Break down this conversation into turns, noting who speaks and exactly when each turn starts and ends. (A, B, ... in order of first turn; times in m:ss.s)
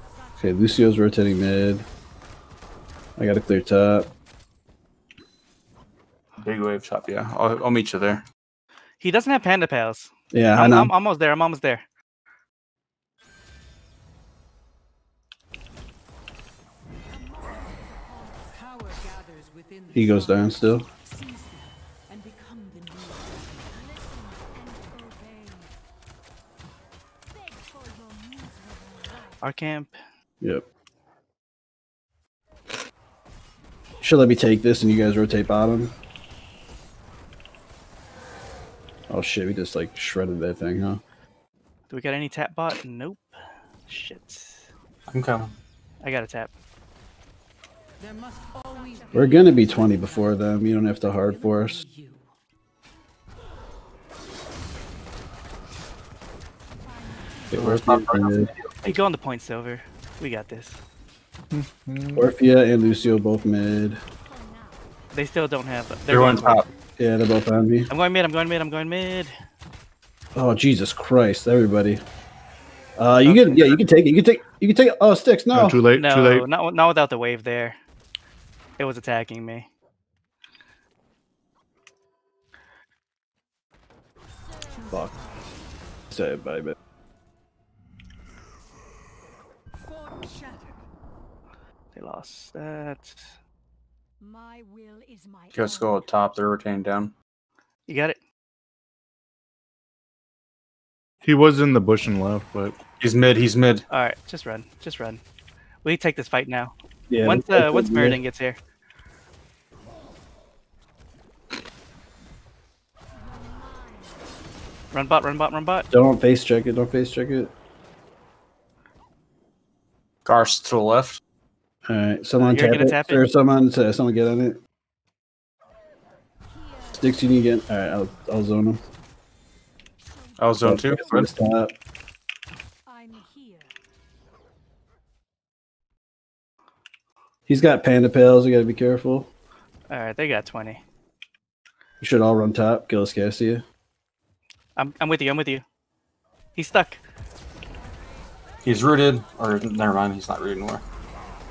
0:00.1-0:00.4 A
0:00.4-0:01.8 B
0:03.2-0:04.1 B
0:06.4-0:08.2 C
0:09.0-0:11.8 D
0:10.3-0:10.9 B
0:17.1-0:18.5 A
0:18.5-0:23.9 E
0:19.9-0:20.8 B
0:23.7-0:25.8 A
0:27.2-0:29.4 A
0:29.4-0:29.9 D
0:34.0-0:35.9 B
0:39.1-0:41.0 B
0:41.9-0:43.3 D
0:43.9-0:44.7 D
0:45.1-0:45.5 C
0:46.0-0:46.5 D
0:48.0-0:52.3 E
0:48.6-0:50.0 A
0:49.1-0:51.8 B
0:56.8-0:57.7 A
0:57.5-0:58.5 B
0:57.5-0:58.7 C
0:58.8-1:00.8 D
1:01.5-1:02.3 F
1:02.1-1:04.0 B
1:02.5-1:04.9 A
1:05.1-1:06.7 D
1:06.1-1:06.7 C
1:07.0-1:07.9 B
1:07.9-1:09.3 D
1:10.3-1:12.0 B
1:13.0-1:15.8 B
1:13.2-1:13.8 D
1:15.5-1:16.4 F
1:15.9-1:17.8 D
1:18.8-1:19.7 D
1:24.4-1:25.6 A
1:24.6-1:25.6 E
1:26.1-1:26.7 B
1:29.7-1:30.8 E
1:31.9-1:33.3 D
1:34.2-1:36.4 A
1:35.5-1:37.1 C
1:37.9-1:38.2 D
1:41.2-1:42.8 F
1:43.0-1:43.8 C
1:43.9-1:45.2 D
1:45.8-1:48.6 D
1:47.1-1:48.2 B
1:53.1-1:54.3 A
1:54.9-1:55.9 D
1:55.9-1:57.5 B
2:00.2-2:01.2 C
2:01.8-2:04.6 B
2:02.4-2:03.2 D
2:06.5-2:07.3 A
2:06.9-2:08.8 B
2:10.2-2:10.6 A
2:10.4-2:11.3 C
2:10.6-2:11.7 B
2:12.8-2:13.8 A
2:17.5-2:19.3 B
2:19.9-2:20.8 D
2:22.0-2:23.6 B
2:24.8-2:25.6 D
2:26.6-2:27.0 D
2:28.6-2:30.8 C